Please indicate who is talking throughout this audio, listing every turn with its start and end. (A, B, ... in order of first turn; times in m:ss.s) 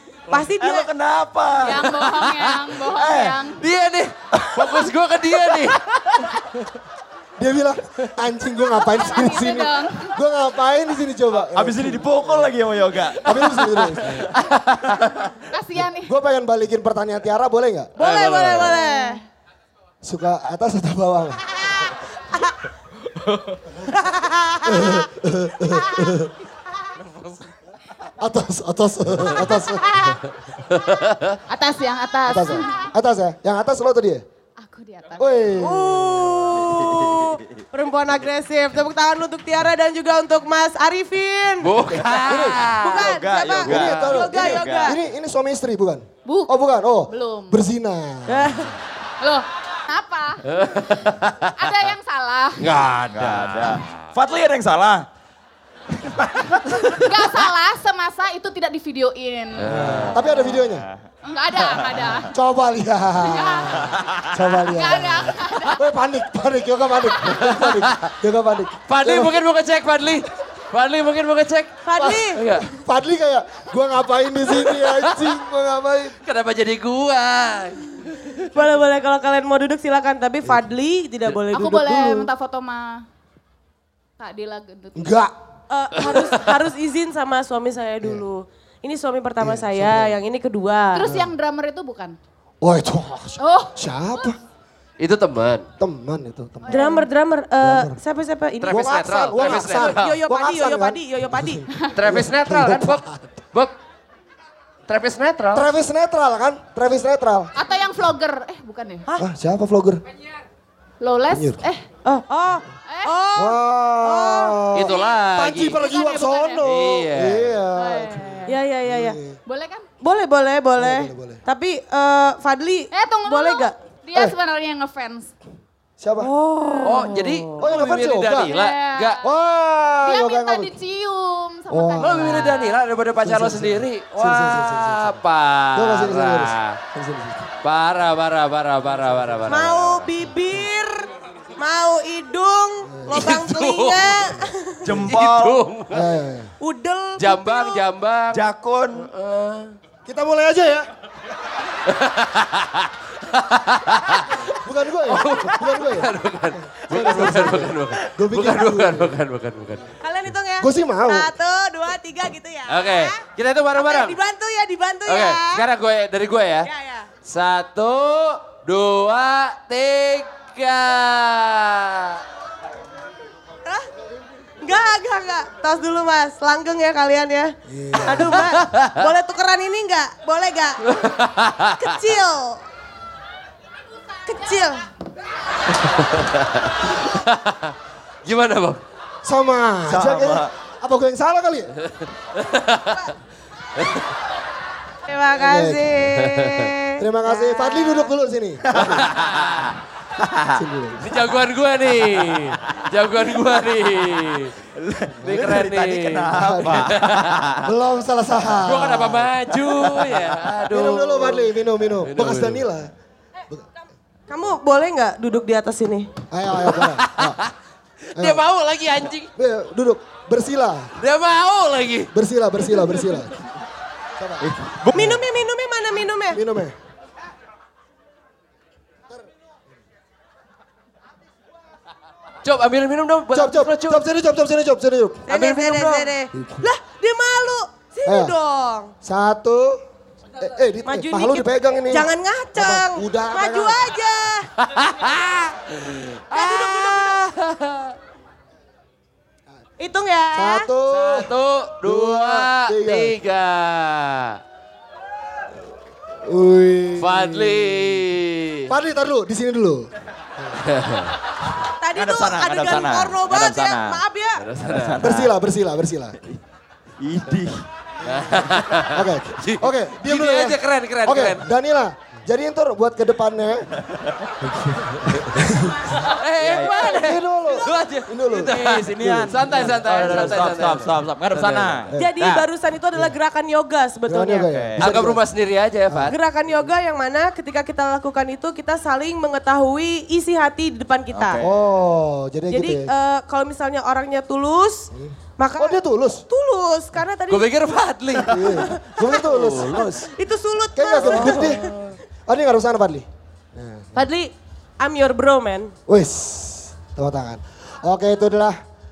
0:00.3-0:00.9 A
0:00.4-0:02.0 B
0:01.6-0:03.6 C
0:02.9-0:03.4 B
0:03.6-0:06.2 D
0:04.4-0:04.6 B
0:07.4-0:12.5 E
0:08.5-0:10.1 C
0:11.4-0:15.2 B
0:13.2-0:14.3 E
0:15.5-0:16.1 C
0:16.0-0:17.9 E
0:18.0-0:19.2 A
0:18.0-0:18.8 D
0:18.6-0:19.1 C
0:20.0-0:21.7 E
0:24.0-0:24.6 A
0:24.6-0:26.3 E
0:28.2-0:30.2 E
0:29.4-0:30.1 C
0:30.7-0:31.4 D
0:31.5-0:32.9 C
0:32.3-0:34.2 E
0:34.6-0:36.0 C
0:35.2-0:36.1 E
0:35.6-0:41.7 A
0:36.8-0:37.6 B
0:41.6-0:43.1 D
0:42.1-0:44.9 B
0:42.3-0:42.7 E
0:42.7-0:45.0 A
0:43.6-0:48.6 E
0:46.2-0:47.7 C
0:48.3-0:48.8 A
0:49.2-0:52.7 C
0:50.4-0:51.8 D
0:52.6-0:54.1 D
0:53.1-0:55.1 B
0:57.0-0:59.7 C
0:59.6-1:00.3 D
0:59.7-1:00.9 E
1:00.6-1:01.0 B
1:01.2-1:02.3 C
1:01.6-1:02.2 B
1:02.3-1:09.4 E
1:03.2-1:03.8 C
1:03.8-1:04.2 B
1:04.6-1:05.8 C
1:07.3-1:07.6 C
1:07.4-1:08.1 D
1:08.9-1:11.7 D
1:11.8-1:12.4 A
1:12.0-1:16.1 E
1:12.3-1:12.6 D
1:14.5-1:15.3 D
1:16.2-1:18.3 D
1:18.5-1:22.3 A
1:21.5-1:23.0 C
1:24.2-1:25.2 C
1:25.0-1:25.3 E
1:25.7-1:31.0 A
1:29.4-1:30.2 E
1:30.9-1:32.2 C
1:32.6-1:34.4 E
1:33.4-1:34.3 C
1:35.0-1:35.6 D
1:35.8-1:37.0 E
1:36.7-1:37.0 C
1:36.7-1:41.6 A
1:37.6-1:38.0 E
1:38.6-1:40.2 D
1:38.7-1:43.3 E
1:41.7-1:42.0 C
1:41.9-1:43.7 D
1:44.9-1:45.7 D
1:45.5-1:47.5 E
1:47.5-1:49.1 C
1:49.2-1:50.0 E
1:51.0-1:51.8 C
1:51.3-1:51.6 E
1:52.0-1:54.6 A
1:52.9-1:53.2 C
1:53.3-1:59.4 E
1:54.7-1:55.8 D
1:54.9-1:56.6 C
1:56.6-1:57.6 D
1:57.7-1:58.5 C
1:58.5-1:59.2 A
1:59.4-1:59.8 C
2:00.0-2:03.7 A
2:00.8-2:01.4 E
2:02.9-2:05.3 C
2:06.0-2:06.3 E
2:06.5-2:07.3 A
2:06.5-2:09.2 C
2:06.8-2:09.2 D
2:07.6-2:08.5 E
2:09.2-2:10.7 E
2:10.0-2:12.8 C
2:11.7-2:12.5 E
2:12.0-2:16.8 D
2:13.2-2:15.2 E
2:15.7-2:17.5 E
2:17.6-2:20.1 D
2:19.5-2:24.8 A
2:22.9-2:23.3 E
2:23.1-2:24.0 D
2:24.8-2:25.6 B
2:25.1-2:26.1 D
2:25.9-2:26.5 E
2:26.6-2:27.8 A
2:27.2-2:28.4 D
2:28.3-2:29.1 B
2:29.0-2:29.7 D
2:30.0-2:30.9 E
2:31.8-2:39.9 D
2:34.6-2:36.1 E
2:36.6-2:39.2 E
2:40.0-2:45.7 A
2:40.6-2:41.3 E
2:42.7-2:44.2 D
2:45.1-2:46.7 D
2:46.6-2:47.1 A
2:47.2-2:52.2 D
2:54.6-3:00.8 A
2:57.7-2:58.4 E
2:58.6-2:59.0 D
3:00.9-3:01.8 D
3:01.8-3:02.6 A
3:04.2-3:04.8 A
3:05.7-3:07.6 D
3:08.2-3:08.8 D
3:09.2-3:11.7 E
3:09.9-3:10.5 B
3:11.9-3:13.1 D
3:13.8-3:14.0 D
3:15.1-3:18.1 A
3:15.3-3:15.9 E
3:16.2-3:16.7 D
3:17.0-3:19.0 E
3:18.7-3:19.1 B
3:19.0-3:19.7 D
3:20.2-3:20.5 B
3:20.5-3:21.0 E
3:21.0-3:24.5 D
3:24.8-3:27.7 B
3:25.2-3:25.6 E
3:25.2-3:27.3 D
3:26.3-3:26.9 E
3:27.6-3:29.3 E
3:28.6-3:31.5 D
3:30.7-3:32.9 E
3:32.0-3:32.6 D
3:34.3-3:36.1 A
3:36.3-3:37.4 E
3:36.6-3:37.5 D
3:38.1-3:39.3 D
3:38.2-3:38.4 E
3:39.4-3:40.9 E
3:41.0-3:42.1 D
3:42.1-3:43.3 E
3:44.2-3:45.2 E
3:44.5-3:45.2 B
3:44.9-3:46.4 A
3:46.3-3:46.7 E
3:52.4-3:54.0 D
3:53.3-3:55.3 E
3:55.3-3:58.9 A
3:55.3-3:56.1 D
3:56.3-3:56.7 E
3:58.0-3:58.3 E
3:59.0-3:59.8 E
4:00.4-4:03.8 E
4:00.8-4:04.5 A
4:04.6-4:07.9 D
4:06.3-4:07.2 A
4:09.8-4:10.7 A
4:10.3-4:11.3 E
4:10.9-4:14.4 D
4:11.8-4:13.1 E
4:16.2-4:18.0 E
4:17.0-4:18.7 D
4:18.7-4:19.9 E
4:20.6-4:21.2 D
4:21.8-4:24.4 A
4:21.9-4:24.0 B
4:24.4-4:25.1 D
4:24.6-4:25.3 B
4:25.0-4:26.2 E
4:27.0-4:27.6 B
4:28.0-4:31.4 D
4:28.9-4:33.7 E
4:34.6-4:35.9 E
4:34.8-4:35.4 D
4:35.9-4:41.8 D
4:36.4-4:36.8 B
4:37.0-4:40.0 E
4:38.3-4:42.4 B
4:42.0-4:44.5 A
4:44.1-4:45.2 E
4:44.5-4:44.8 B
4:44.8-4:46.1 D
4:45.9-4:46.1 E
4:46.1-4:51.4 A
4:51.1-4:51.5 B
4:51.4-4:52.9 E
4:52.5-4:57.5 A
4:54.9-4:56.2 E
4:57.3-5:00.1 D
4:58.3-5:00.1 E
4:58.4-4:59.2 A
5:00.2-5:01.7 A
5:00.7-5:01.7 E
5:01.0-5:01.9 D
5:02.2-5:03.9 E
5:03.9-5:05.7 A
5:05.9-5:08.6 E